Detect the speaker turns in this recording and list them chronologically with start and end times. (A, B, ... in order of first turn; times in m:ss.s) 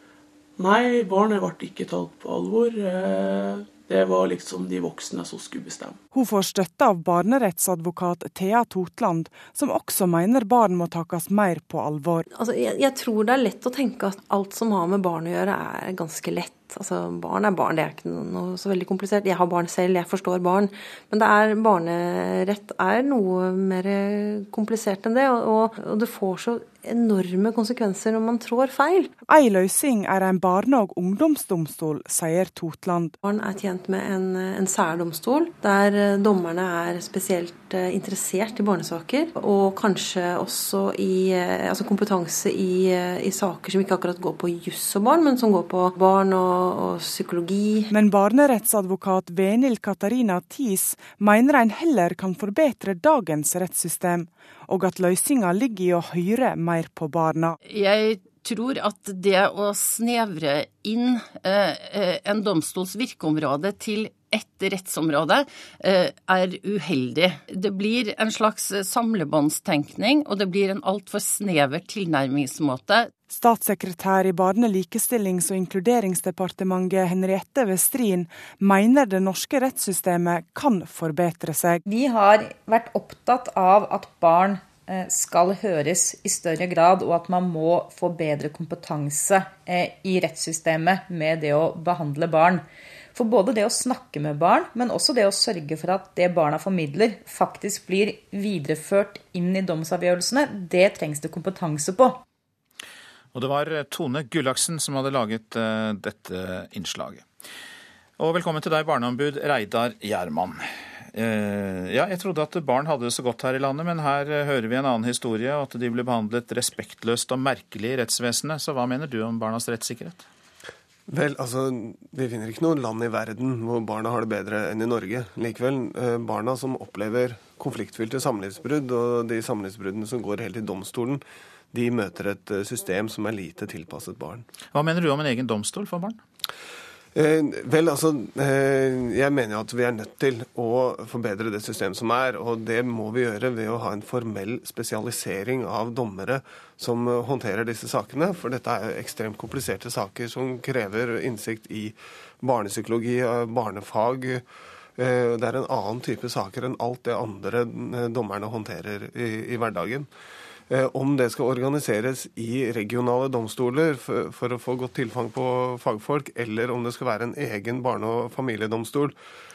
0:00.6-0:05.9 A
0:06.1-0:12.2 B
0:12.4-0:29.0 C
0:29.3-0:33.2 B
0:33.2-0:47.8 C
0:47.9-0:57.6 B
0:57.6-1:13.1 D
1:13.3-1:21.8 B
1:21.8-1:42.2 E
1:43.3-1:47.2 F
1:48.2-2:00.2 F
2:01.1-2:11.2 G
2:11.7-2:14.4 G
2:14.7-2:16.2 F
2:17.1-2:34.4 G
2:35.0-2:40.1 G
2:40.7-2:49.2 G